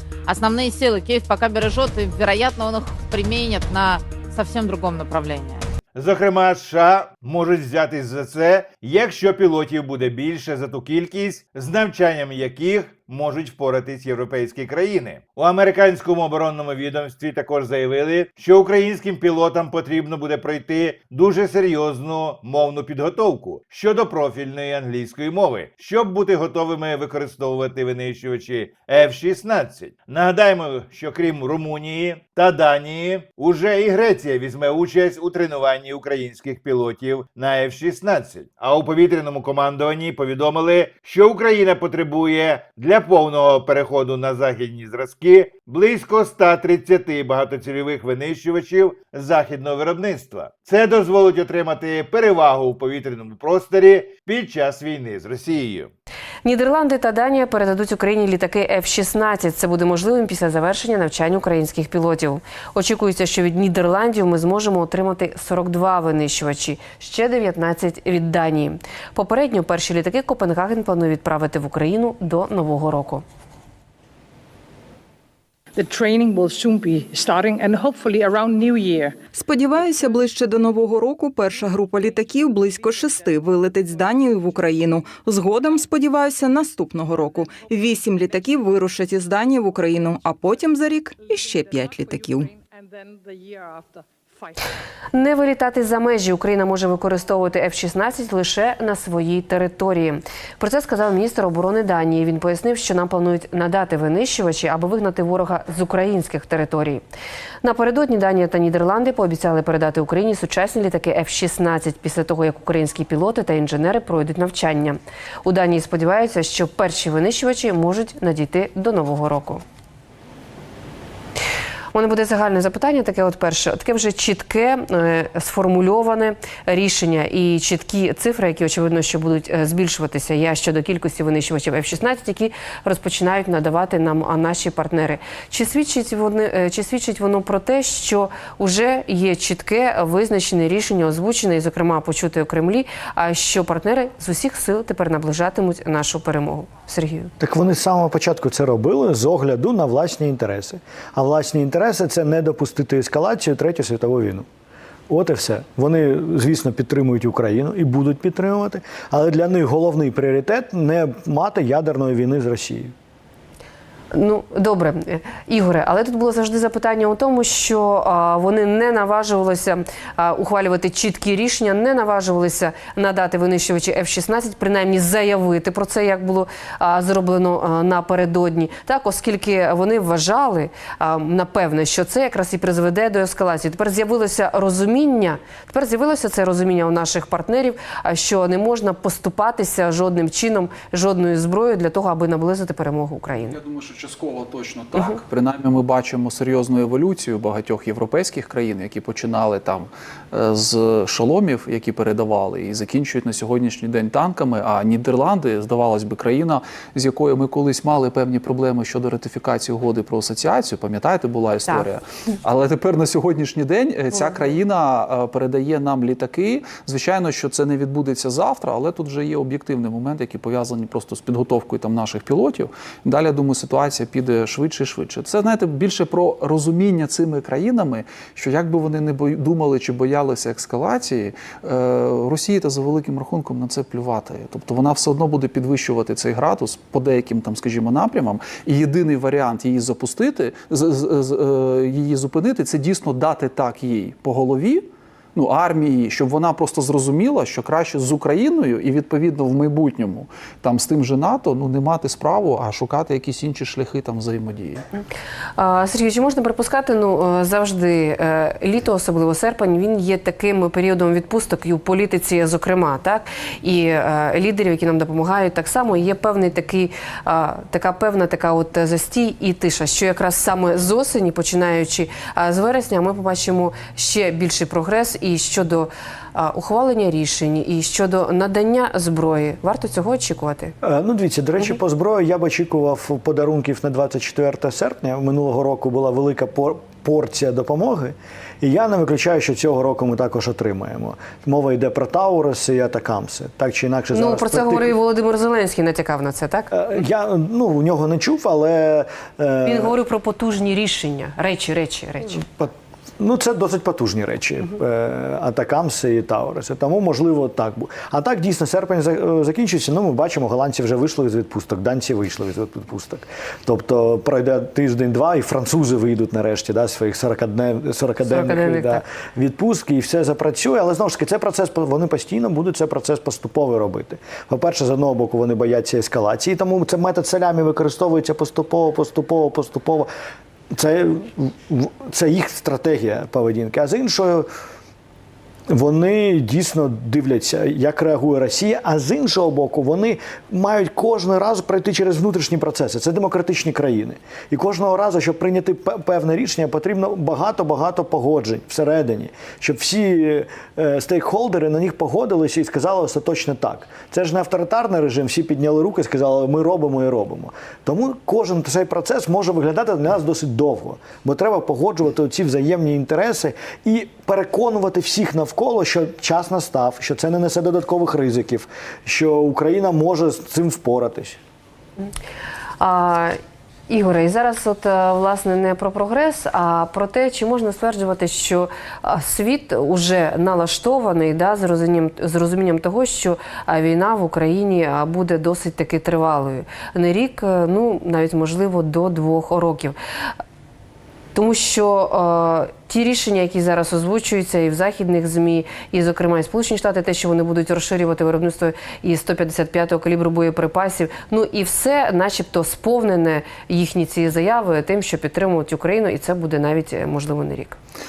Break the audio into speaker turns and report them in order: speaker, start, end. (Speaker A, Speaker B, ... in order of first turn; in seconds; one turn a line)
Speaker A: 0.3-5.7
Speaker B: 5.9-55.9
Speaker C: 56.4-73.2
Speaker D: 75.8-80.2
Speaker E: 79.3-92.5
Speaker D: 82.0-85.9
Speaker D: 87.2-88.4
Speaker D: 91.2-94.5
Speaker C: 95.1-107.0
Speaker C: 107.6-119.6
Speaker C: 121.9-147.3
Speaker F: 147.4-154.4
Speaker F: 155.1-162.9
Speaker C: 164.1-193.6
Speaker G: 193.4-254.8
Speaker C: 255.6-280.7
Speaker F: 280.8-294.9
Speaker C: 294.1-296.7
Speaker F: 296.7-299.9
Speaker C: 299.6-302.4
Speaker F: 302.3-330.1
Speaker C: 318.2-319.0
Speaker F: 330.7-334.5
Speaker F: 335.7-371.4
Speaker C: 372.8-373.4
Speaker C: 373.9-389.9
Speaker C: 391.3-407.8